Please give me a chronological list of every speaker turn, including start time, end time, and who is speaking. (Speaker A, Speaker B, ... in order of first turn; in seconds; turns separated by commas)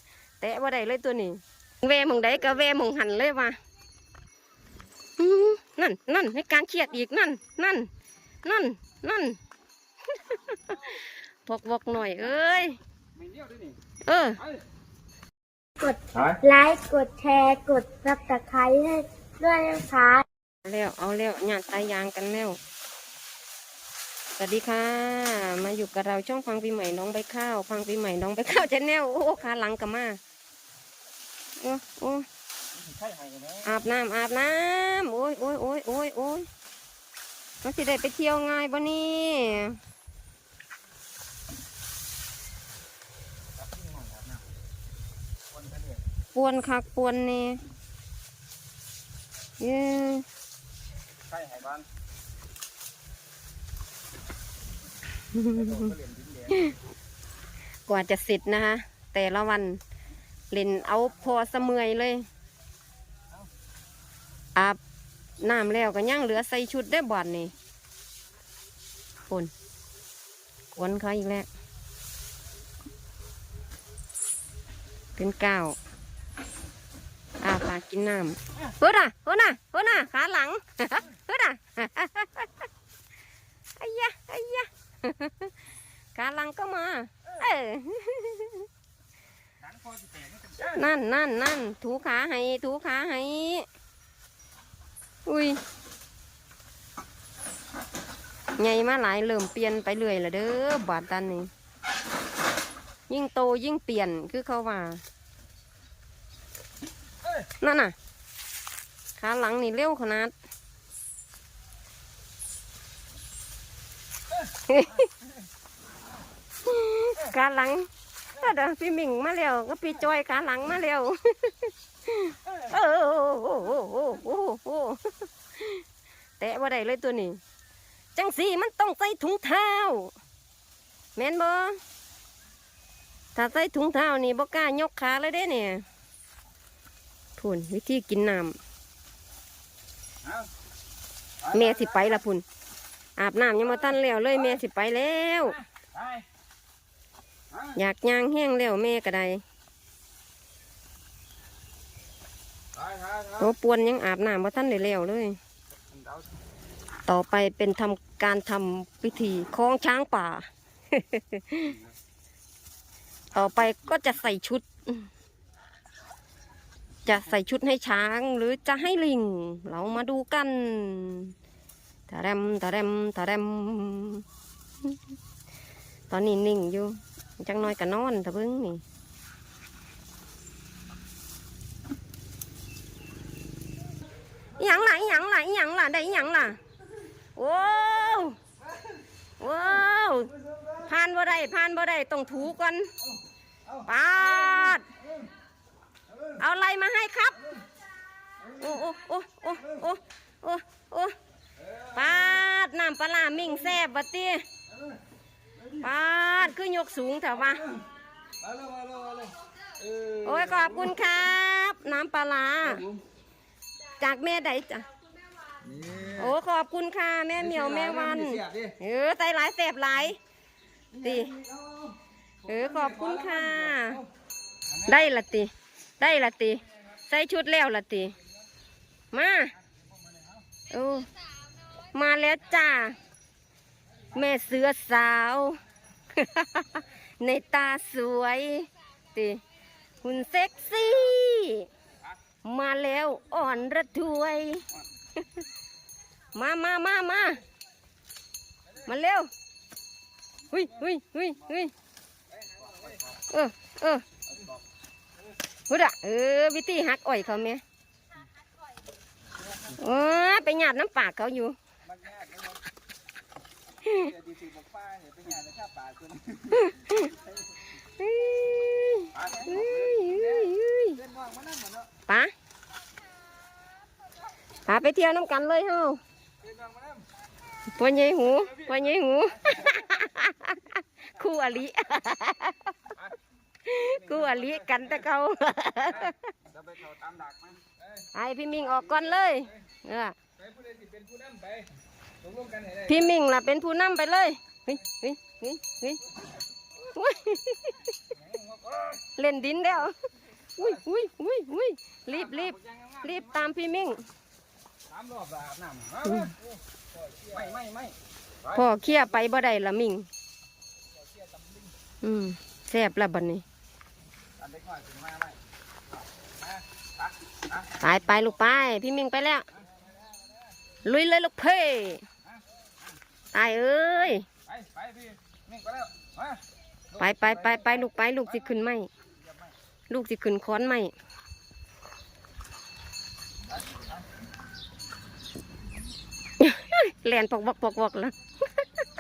Speaker A: 0.4-3.6, Speaker A: 5.2-7.9, Speaker A: 8.4-9.4, Speaker A: 10.1-12.8, Speaker B: 13.2-13.8, Speaker A: 14.1-14.4, Speaker C: 15.8-20.2, Speaker A: 20.6-22.6, Speaker A: 24.4-30.2, Speaker A: 31.6-32.3, Speaker B: 32.8-33.6, Speaker A: 33.6-36.5, Speaker A: 37.6-39.8, Speaker B: 43.6-44.4, Speaker B: 45.5-46.0, Speaker A: 46.4-47.6, Speaker A: 49.6-50.2, Speaker B: 51.3-51.9, Speaker A: 55.3-55.9, Speaker B: 55.4-56.7, Speaker A: 57.9-59.8, Speaker A: 60.5-62.3, Speaker A: 65.4-67.5, Speaker A: 70.7-71.5, Speaker A: 75.2-75.8, Speaker A: 77.4-82.7, Speaker A: 83.8-85.5, Speaker A: 86.2-88.7, Speaker B: 89.6-90.8, Speaker A: 90.6-93.7, Speaker A: 95.3-95.6, Speaker A: 98.6-101.5, Speaker A: 103.1-105.0, Speaker A: 107.6-107.9, Speaker A: 109.2-110.3, Speaker A: 114.7-115.1, Speaker A: 116.7-125.8, Speaker A: 126.4-127.4, Speaker A: 128.2-130.1, Speaker A: 131.2-131.8, Speaker A: 133.3-135.8, Speaker A: 137.4-138.6, Speaker B: 141.4-142.1, Speaker A: 141.5-142.4, Speaker A: 143.2-145.6, Speaker B: 145.9-146.2, Speaker A: 147.8-149.4, Speaker B: 152.7-153.5, Speaker A: 153.4-155.4, Speaker B: 155.9-156.2, Speaker A: 157.1-161.8, Speaker A: 163.3-165.1, Speaker A: 167.1-171.3, Speaker A: 172.1-174.2, Speaker A: 176.1-178.8, Speaker A: 184.6-186.6, Speaker A: 187.4-188.4, Speaker A: 189.4-192.9, Speaker A: 193.8-194.9, Speaker A: 196.4-197.6, Speaker A: 198.5-201.2, Speaker A: 201.9-204.4, Speaker A: 205.8-207.7, Speaker B: 208.4-210.8, Speaker A: 210.2-212.9, Speaker A: 214.0-214.9, Speaker B: 215.7-216.2, Speaker A: 216.1-220.2, Speaker B: 217.4-218.8, Speaker A: 221.0-221.4, Speaker B: 221.1-221.9, Speaker A: 222.4-224.0, Speaker B: 222.7-223.6, Speaker A: 224.8-228.2, Speaker A: 229.1-229.5, Speaker A: 230.7-231.1, Speaker A: 231.9-233.0, Speaker A: 234.1-235.6, Speaker A: 236.1-239.4, Speaker A: 240.0-241.7, Speaker A: 242.4-244.7, Speaker A: 246.3-247.4, Speaker A: 248.8-249.3, Speaker A: 250.5-251.7, Speaker B: 252.3-253.1, Speaker A: 253.3-254.1, Speaker B: 254.3-254.6, Speaker A: 255.7-257.6, Speaker A: 259.7-261.6, Speaker B: 261.9-262.6, Speaker A: 263.9-264.1, Speaker B: 263.9-266.8, Speaker A: 266.5-267.1, Speaker A: 268.0-271.0, Speaker B: 269.1-271.9, Speaker A: 272.1-272.3, Speaker A: 274.7-276.0, Speaker B: 276.4-277.1, Speaker A: 277.7-282.8, Speaker A: 283.6-286.2, Speaker B: 283.9-284.9, Speaker B: 285.9-288.1, Speaker A: 288.1-290.1, Speaker B: 290.4-293.1, Speaker A: 292.9-296.0, Speaker A: 296.9-297.9, Speaker B: 298.1-299.1, Speaker A: 299.2-299.9, Speaker A: 300.6-304.0, Speaker B: 302.1-303.5, Speaker B: 304.9-306.4, Speaker B: 307.0-308.6, Speaker A: 308.5-310.1, Speaker B: 311.0-311.7, Speaker A: 312.0-313.4, Speaker B: 314.4-315.4, Speaker B: 316.4-317.8, Speaker A: 317.8-319.5, Speaker B: 319.6-320.0, Speaker A: 320.9-322.0, Speaker A: 323.3-324.3, Speaker B: 324.5-326.4, Speaker A: 326.9-328.9, Speaker B: 327.0-327.8, Speaker B: 329.2-329.5, Speaker A: 329.9-330.9, Speaker A: 336.4-338.7